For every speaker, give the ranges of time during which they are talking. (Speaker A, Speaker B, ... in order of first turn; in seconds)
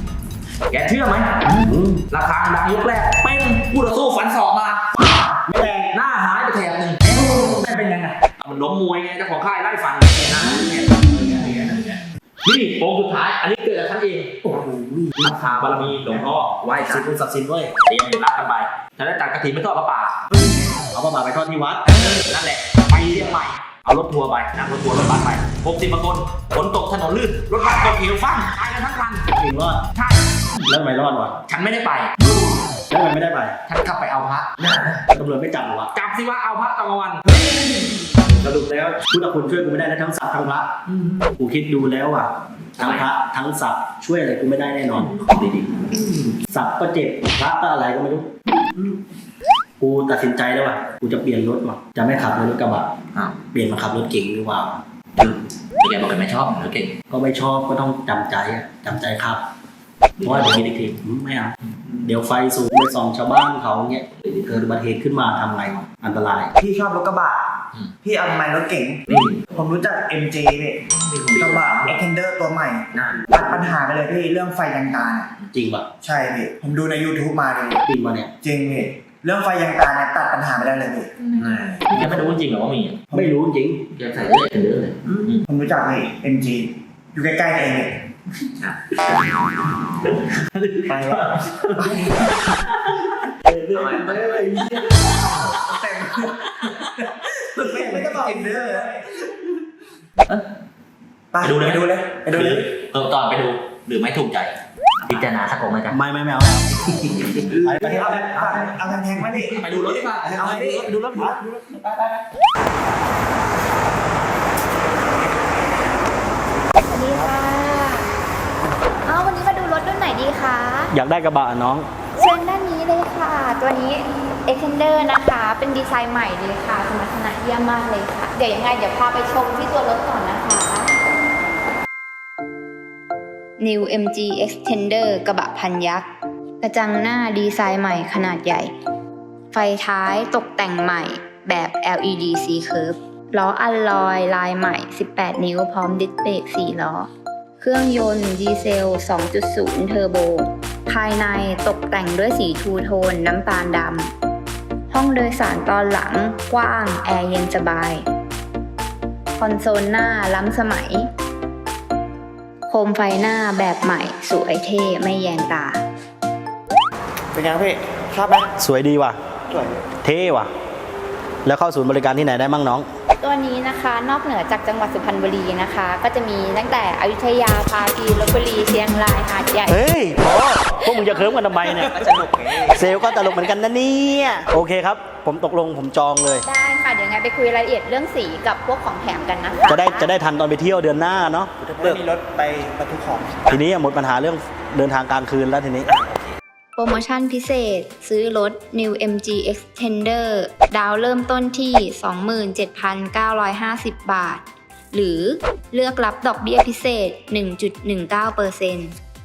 Speaker A: 0.7-5.3, 5.9-14.4, 15.2-17.1, 17.9-20.2, 21.9-29.3, 29.9-30.6, 31.4-32.6, 33.7-35.0, 35.9-37.5, 38.2-38.9, 40.9-41.3, 42.8-43.1, 44.9-46.3, 55.2-56.9, 60.2-60.7, 64.2-64.6, 69.1-69.4, 70.8-72.0, 72.9-73.3, 81.3-83.0, 83.9-85.5, 88.6-92.9, 93.7-95.7, 96.6-97.0, 101.4-106.0, 106.9-107.6, 109.3-112.2
Speaker B: 1.6-2.0, 5.0-5.9, 7.1-8.0, 10.6-11.5, 14.4-17.7, 20.3-22.1, 22.9-23.3, 29.3-29.9, 30.6-31.4, 32.9-33.6, 35.1-35.9, 37.4-40.8, 41.4-45.1, 46.4-48.3, 49.8-52.9, 53.5-54.8, 57.1-59.4, 60.2-66.5, 75.5-75.9, 77.8-78.3, 83.1-83.8, 93.4-95.1, 105.9-108.8, 120.9-121.9, 168.6-169.2, 169.9-170.5, 171.4-172.9, 179.7-182.1, 182.7-186.4, 189.7-192.0, 193.5-195.9
Speaker C: 66.6-70.8, 71.3-75.3, 76.0-77.8, 78.4-81.3, 85.5-88.0, 90.8-92.3, 95.5-96.5, 97.5-99.2, 101.3-102.6, 107.5-110.9, 167.3-168.5, 169.5-169.8, 181.6-182.9, 191.6-193.6, 195.9-196.2
Speaker D: 116.8-118.1, 119.0-120.9, 122.2-131.0, 133.6-136.1, 136.6-138.7, 139.5-154.1, 154.9-158.1, 159.4-161.1, 162.7-165.8, 173.2-179.8, 186.4-190.1, 196.8-208.9